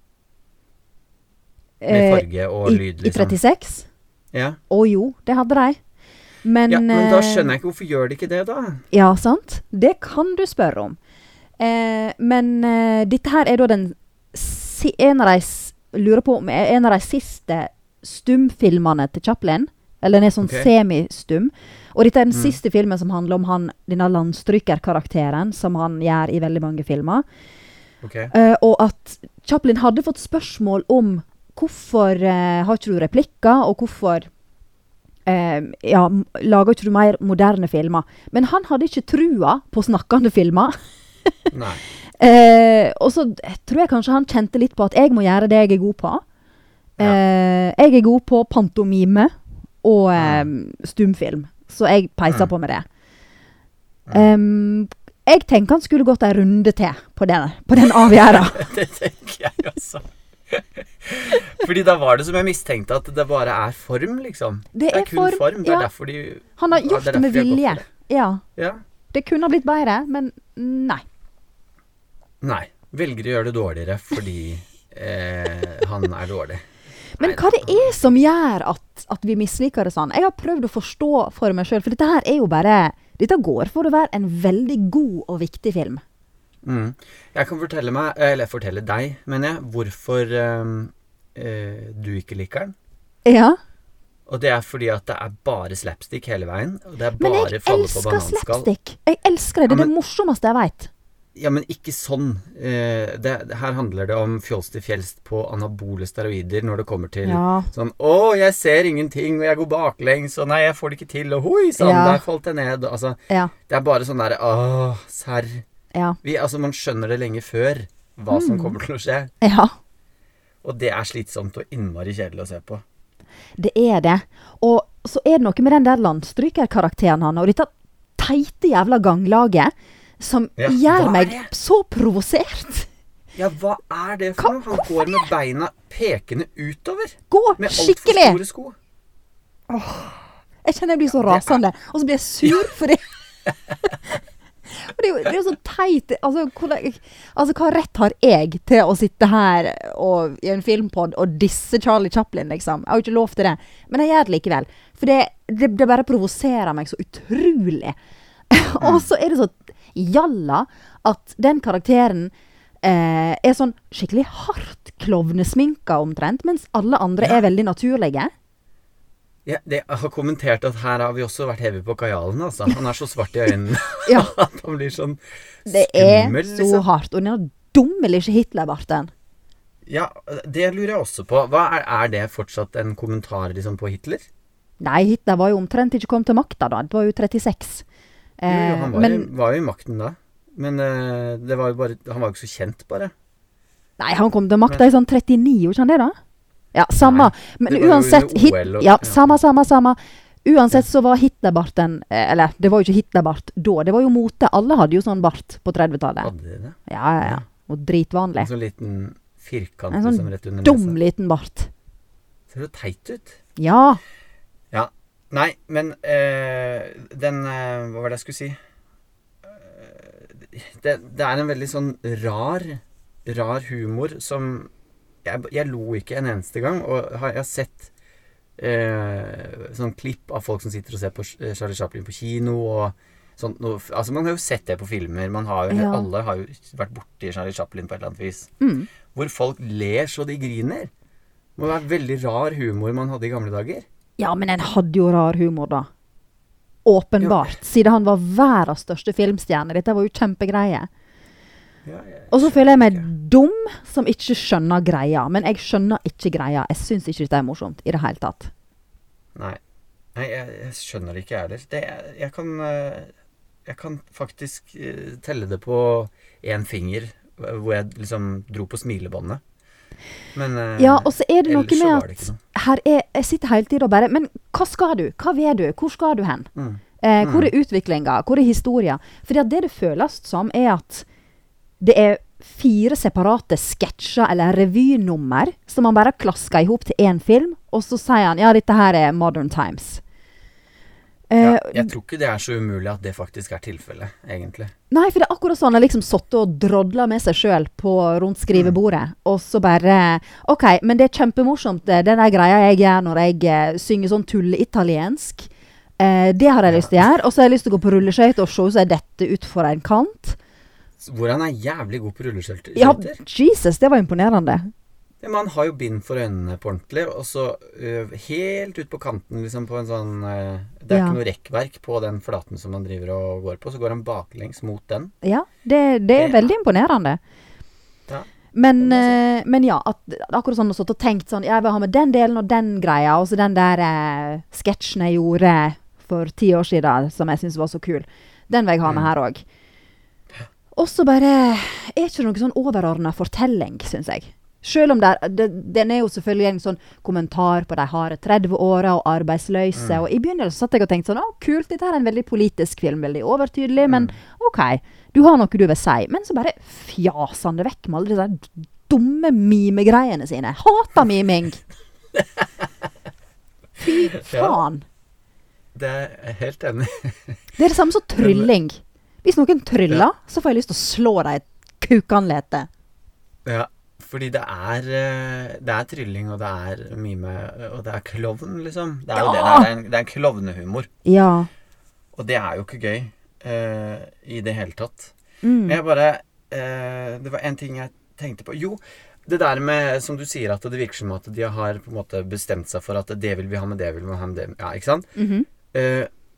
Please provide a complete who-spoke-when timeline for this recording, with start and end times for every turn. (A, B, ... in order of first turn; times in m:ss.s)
0:01.8-0:03.9 A
0:01.9-0:03.4 B
0:04.3-0:04.6 B
0:04.7-0:05.8 A
0:06.4-0:07.5 A
0:06.7-0:08.8 B
0:08.9-0:11.0 A
0:11.6-0:27.2 A
0:20.4-0:20.7 B
0:22.3-0:22.6 B
0:28.0-0:28.3 B
0:28.3-0:34.3 A
0:35.3-0:40.8 A
0:41.5-0:41.8 B
0:42.2-0:46.2 A
0:47.0-0:49.3 A
0:49.8-0:52.8 A
0:50.2-0:50.5 B
0:54.1-0:54.3 B
0:54.1-0:58.6 A
0:57.8-1:07.8 B
1:04.7-1:05.9 A
1:06.6-1:08.4 A
1:08.6-1:08.8 B
1:09.1-1:11.0 A
1:12.4-1:16.6 B
1:17.2-1:26.0 A
1:17.2-1:18.1 B
1:26.6-1:32.7 B
1:33.2-1:33.6 A
1:34.3-1:38.7 B
1:37.2-1:40.9 A
1:41.3-1:55.6 B
1:47.2-1:47.7 A
1:51.8-1:52.2 A
1:55.9-1:56.2 A
1:56.2-1:59.3 B
1:58.3-1:58.8 A
1:59.4-1:59.7 A
2:00.6-2:02.8 B
2:03.6-2:12.9 A
2:10.6-2:11.5 B
2:13.3-2:18.8 B
2:14.4-2:15.3 A
2:17.3-2:18.4 A
2:19.7-2:23.0 A
2:21.1-2:21.6 B
2:24.7-2:38.0 A
2:38.5-2:48.3 A
2:38.8-2:39.1 B
2:49.4-2:56.8 B
2:54.0-2:54.3 A
2:55.7-2:59.1 A
2:59.8-3:04.3 B
3:04.8-3:07.8 A
3:08.4-3:09.3 A
3:08.5-3:13.1 B
3:14.0-3:16.2 A
3:16.7-3:26.3 A
3:17.0-3:19.4 B
3:26.2-3:27.4 B
3:26.9-3:28.5 A
3:28.4-3:31.0 B
3:29.9-3:31.7 A
3:32.5-3:33.4 B
3:33.6-3:34.0 A
3:34.7-3:38.6 B
3:39.4-3:44.7 B
3:45.2-3:47.9 B
3:48.6-3:58.5 B
3:55.7-3:56.1 A
3:58.6-3:58.9 A
3:59.1-4:00.9 B
4:01.6-4:03.8 B
4:04.2-4:05.9 A
4:06.8-4:10.9 A
4:07.2-4:07.5 B
4:11.8-4:13.1 B
4:12.3-4:18.5 A
4:19.3-4:19.6 B
4:20.1-4:23.1 B
4:23.6-4:29.4 B
4:30.3-4:32.4 B
4:30.8-4:36.5 A
4:36.5-4:37.5 B
4:37.0-4:41.0 A
4:41.8-4:50.0 A
4:51.3-4:51.9 A
4:51.4-4:54.7 B
4:54.9-5:10.4 A
5:06.7-5:07.0 B
5:11.0-5:13.2 B
5:12.8-5:14.7 A
5:15.2-5:25.1 B
5:20.9-5:21.2 A
5:25.2-5:27.2 A
5:26.2-5:26.5 B
5:28.1-5:29.2 B
5:28.5-5:39.4 A
5:40.7-6:01.6 A
5:49.7-5:50.0 B
5:53.8-5:54.1 B
6:02.1-6:02.7 B
6:03.8-6:04.8 A
6:04.1-6:04.6 B
6:05.7-6:07.4 B
6:07.6-6:12.7 A
6:08.2-6:08.5 B
6:13.4-6:20.9 B
6:19.1-6:19.7 A
6:21.0-6:21.5 A
6:22.1-6:25.1 B
6:25.4-6:25.8 A
6:25.6-6:35.1 B
6:35.2-6:35.5 A
6:35.7-6:36.1 B